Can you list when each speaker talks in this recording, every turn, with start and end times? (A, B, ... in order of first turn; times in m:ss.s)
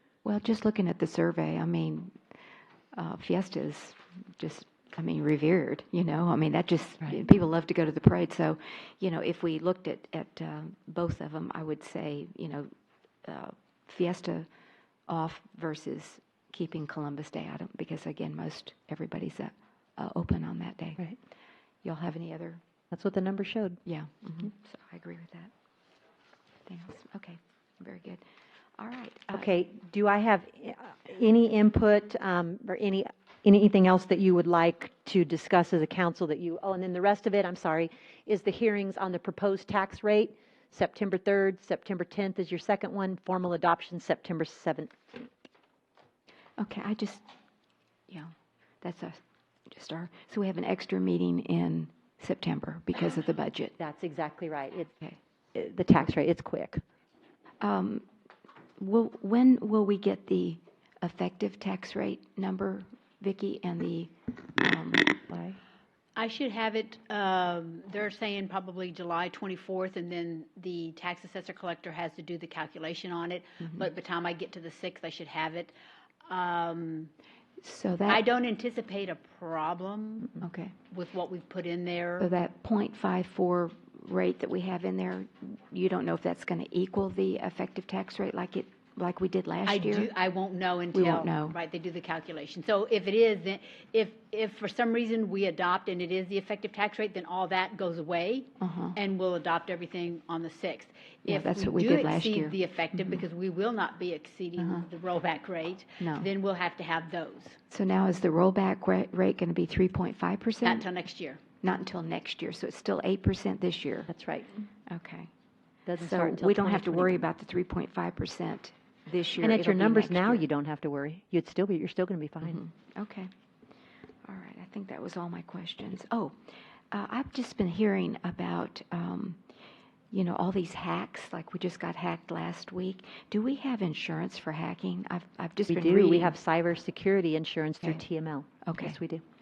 0:00.2-0:02.2 A
0:02.9-0:12.7 A
0:13.2-0:14.5 A
0:15.1-0:21.1 A
0:21.8-0:22.6 A
0:22.9-0:23.8 B
0:23.8-0:25.5 A
0:26.7-0:28.2 A
0:28.8-0:29.5 A
0:29.3-0:45.3 B
0:46.6-0:47.2 A
0:48.1-0:49.2 A
0:49.7-0:53.8 A
0:53.8-0:54.9 B
0:55.5-0:56.8 B
0:57.6-0:58.0 A
0:58.8-1:05.1 A
1:05.3-1:05.6 B
1:06.2-1:15.7 C
1:16.2-1:17.1 C
1:17.6-1:18.2 A
1:18.1-1:20.4 C
1:20.4-1:20.8 A
1:20.9-1:22.3 C
1:22.2-1:30.1 A
1:29.7-1:47.6 C
1:30.9-1:31.6 A
1:38.6-1:39.0 A
1:41.2-1:43.2 A
1:44.6-1:44.9 A
1:46.0-1:46.3 A
1:47.7-1:50.9 A
1:50.6-1:51.4 C
1:51.6-1:54.1 A
1:54.1-1:54.6 B
1:54.9-1:55.3 A
1:55.8-1:57.2 B
1:56.0-2:00.5 A
1:59.4-2:02.6 B
2:02.4-2:03.3 A
2:04.2-2:06.4 A
2:06.9-2:09.4 A
2:10.1-2:16.4 A
2:15.7-2:19.2 B
2:18.6-2:19.0 A